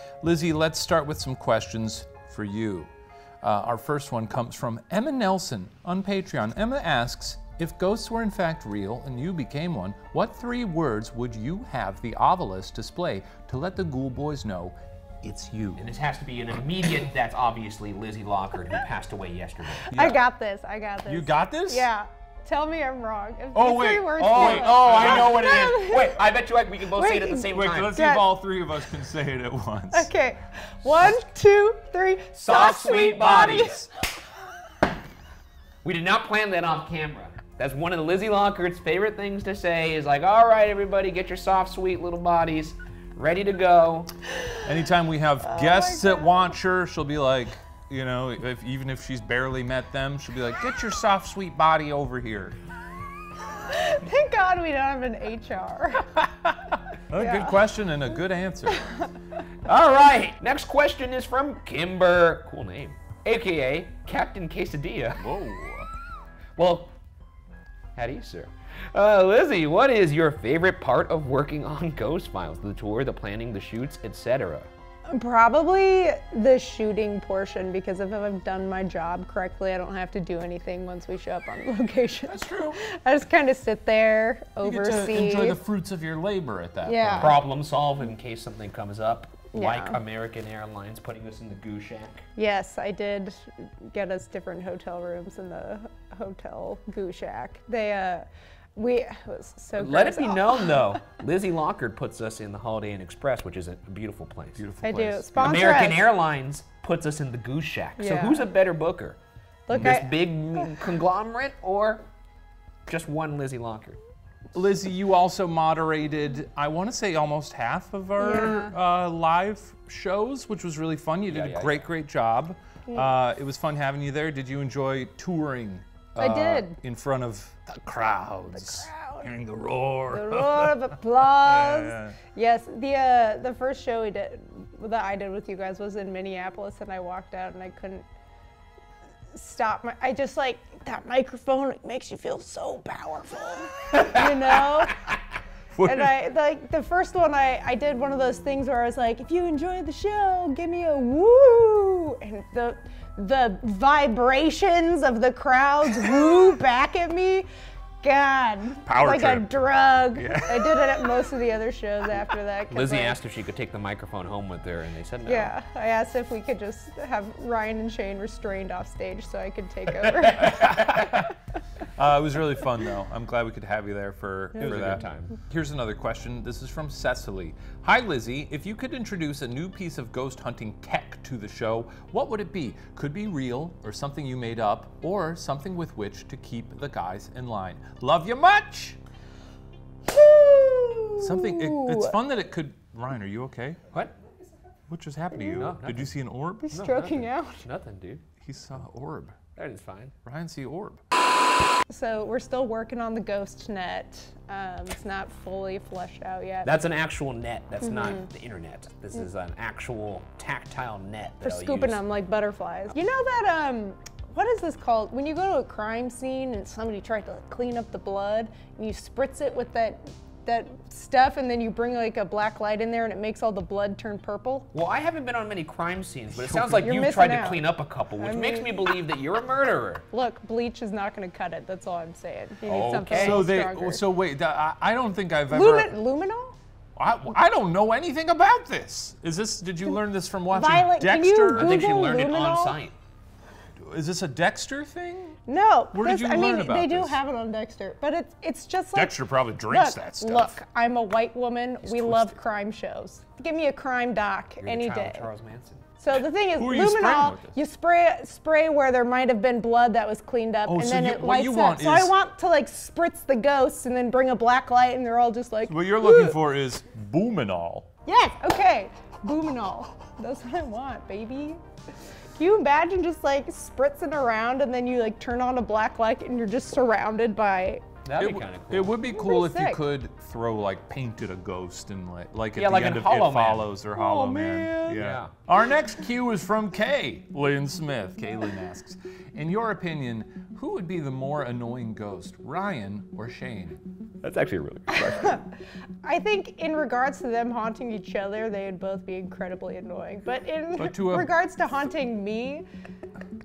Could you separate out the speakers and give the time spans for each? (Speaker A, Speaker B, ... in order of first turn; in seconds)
Speaker A: 0.2-15.8, 19.9-20.2, 21.1-21.9, 23.5-25.6, 27.4-30.1, 32.5-33.8, 44.6-52.6, 57.1-58.9, 65.2-65.9, 82.3-82.8, 84.6-87.4, 104.6-105.8, 109.7-110.0, 114.5-132.2, 145.8-146.1, 158.8-159.5, 160.1-161.1, 170.0-171.3, 172.0-189.0, 191.2-193.8, 194.9-196.9, 198.4-199.4, 200.2-201.0, 226.3-227.0, 233.1-235.9, 237.0-242.0, 243.8-245.4, 245.9-247.2, 248.9-250.6, 251.8-252.4, 256.6-257.6, 260.7-262.1, 265.7-267.9, 278.2-293.8, 300.8-301.3
Speaker B: 15.8-19.9, 24.2-28.0, 32.4-33.8, 35.8-44.1, 59.7-65.3, 66.6-66.9, 68.0-74.7, 87.2-92.3, 99.8-104.6, 105.4-109.2, 109.7-112.0, 112.9-114.0, 121.3-121.9, 162.7-165.5, 174.6-175.3, 195.5-196.1, 196.7-198.2, 199.6-200.1, 206.6-212.0, 224.7-230.1, 232.7-233.4, 241.5-242.9, 254.6-255.9, 278.1-278.9, 282.6-283.7, 284.9-285.3, 294.2-295.4
Speaker C: 19.9-26.2, 27.0-28.3, 29.9-33.9, 45.4-46.4, 53.7-56.1, 57.1-57.5, 75.1-85.6, 86.8-87.4, 89.5-90.0, 92.4-100.8, 104.8-106.0, 108.0-108.5, 109.7-110.7, 118.2-118.8, 122.9-123.1, 126.2-126.8, 128.5-129.3, 130.1-138.1, 139.3-144.9, 145.8-157.5, 158.0-163.2, 165.3-171.2, 174.6-174.9, 190.1-192.2, 195.3-195.7, 196.7-197.6, 201.9-206.7, 207.8-208.3, 211.4-224.7, 226.8-227.6, 228.2-228.9, 230.1-234.0, 235.5-236.6, 240.5-242.8, 245.5-255.3, 256.0-266.4, 268.1-271.6, 272.4-277.9, 279.1-279.8, 283.9-285.0, 296.0-302.7